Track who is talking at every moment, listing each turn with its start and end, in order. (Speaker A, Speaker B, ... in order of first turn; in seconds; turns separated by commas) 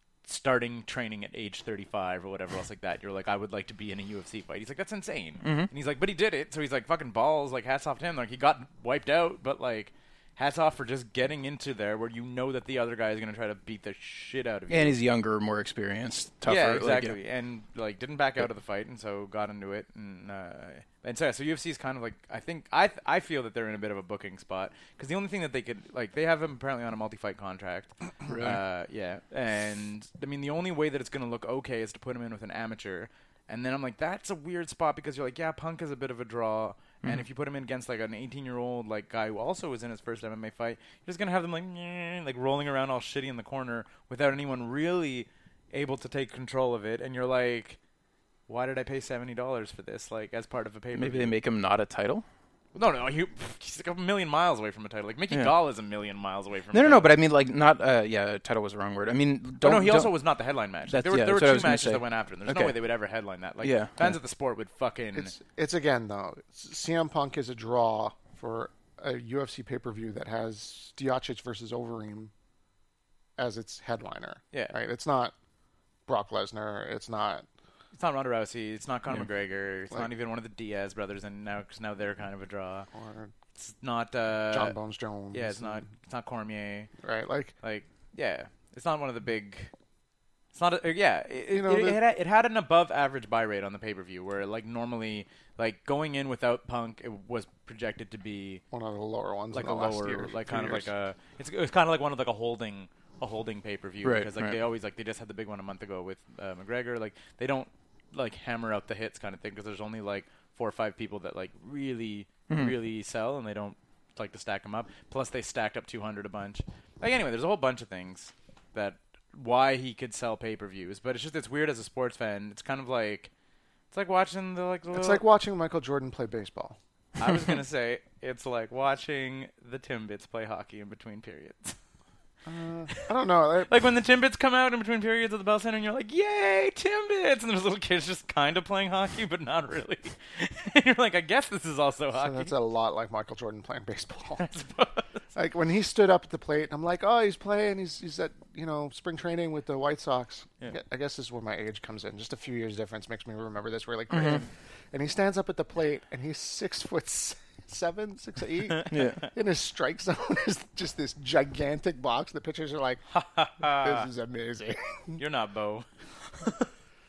Speaker A: 0.2-15.0, Speaker B: 5.4-5.7, Speaker B: 14.7-17.2, Speaker A: 16.4-47.8, Speaker B: 28.3-28.6, Speaker A: 48.5-51.3, Speaker B: 50.9-52.2, Speaker A: 52.7-57.1, Speaker B: 56.7-60.1, Speaker A: 59.6-65.3, Speaker B: 60.9-62.8, Speaker B: 63.6-64.2, Speaker C: 65.1-72.3, Speaker C: 73.4-75.3, Speaker C: 76.1-77.5, Speaker A: 77.9-82.9, Speaker C: 82.9-83.3, Speaker A: 83.5-84.7, Speaker C: 84.5-85.8, Speaker A: 85.3-86.9, Speaker C: 87.0-87.5, Speaker A: 87.6-89.7, Speaker A: 90.5-98.6, Speaker C: 91.5-92.0, Speaker C: 98.7-100.9, Speaker A: 99.5-123.3, Speaker B: 104.0-104.6, Speaker B: 112.5-112.8, Speaker A: 123.9-125.2, Speaker C: 124.9-126.8, Speaker A: 127.2-131.8, Speaker C: 132.4-133.8, Speaker A: 133.7-142.5, Speaker C: 142.1-144.4, Speaker A: 144.4-145.2, Speaker C: 145.3-163.0, Speaker B: 154.1-154.4, Speaker B: 158.9-159.3, Speaker A: 163.1-164.1, Speaker C: 163.6-165.2, Speaker A: 165.2-166.7